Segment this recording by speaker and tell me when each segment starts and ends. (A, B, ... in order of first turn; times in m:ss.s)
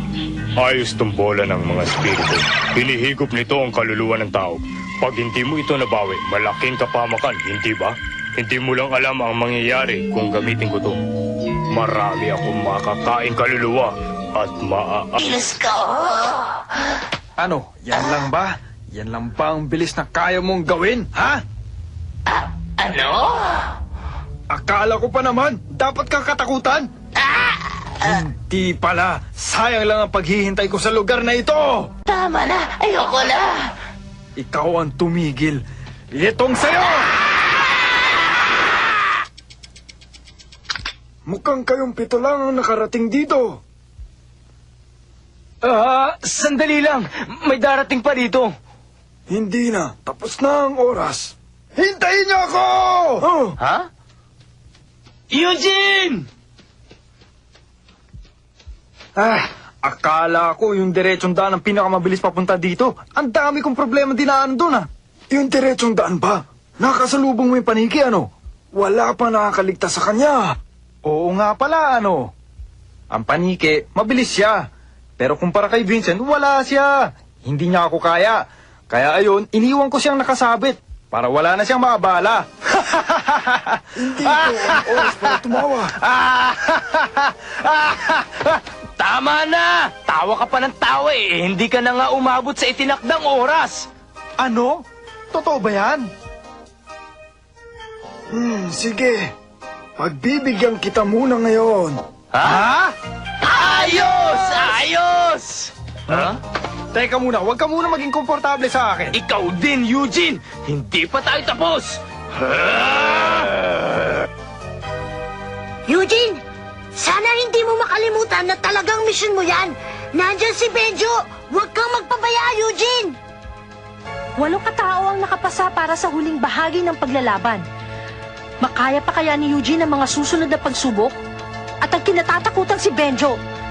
0:00.6-0:11.0 A
0:11.7-0:15.6 A
0:17.4-0:21.4 B
0:24.5-0:26.9 B
0:28.0-0:31.9 B
0:32.1-0:33.4 C
0:34.4-0:37.1 B
0:41.3-0:43.6 B
0:45.6-0:48.5 D
0:49.3-0:53.4 B
0:53.6-0:53.9 D
0:55.3-0:56.2 D
0:59.2-1:10.5 B
1:11.0-1:12.3 B
1:13.1-1:14.6 B
1:15.2-1:26.0 B
1:29.0-1:33.9 D
1:34.4-1:34.8 B
1:35.3-1:36.0 B
1:38.3-1:39.3 B
1:40.0-1:42.9 B
1:42.3-1:42.7 D
1:43.4-1:46.4 D
1:46.9-1:49.2 B
1:49.1-1:53.6 D
1:55.9-1:56.4 C
1:57.0-2:03.2 C
2:04.4-2:07.6 E
2:08.6-2:11.2 E
2:11.8-2:13.4 E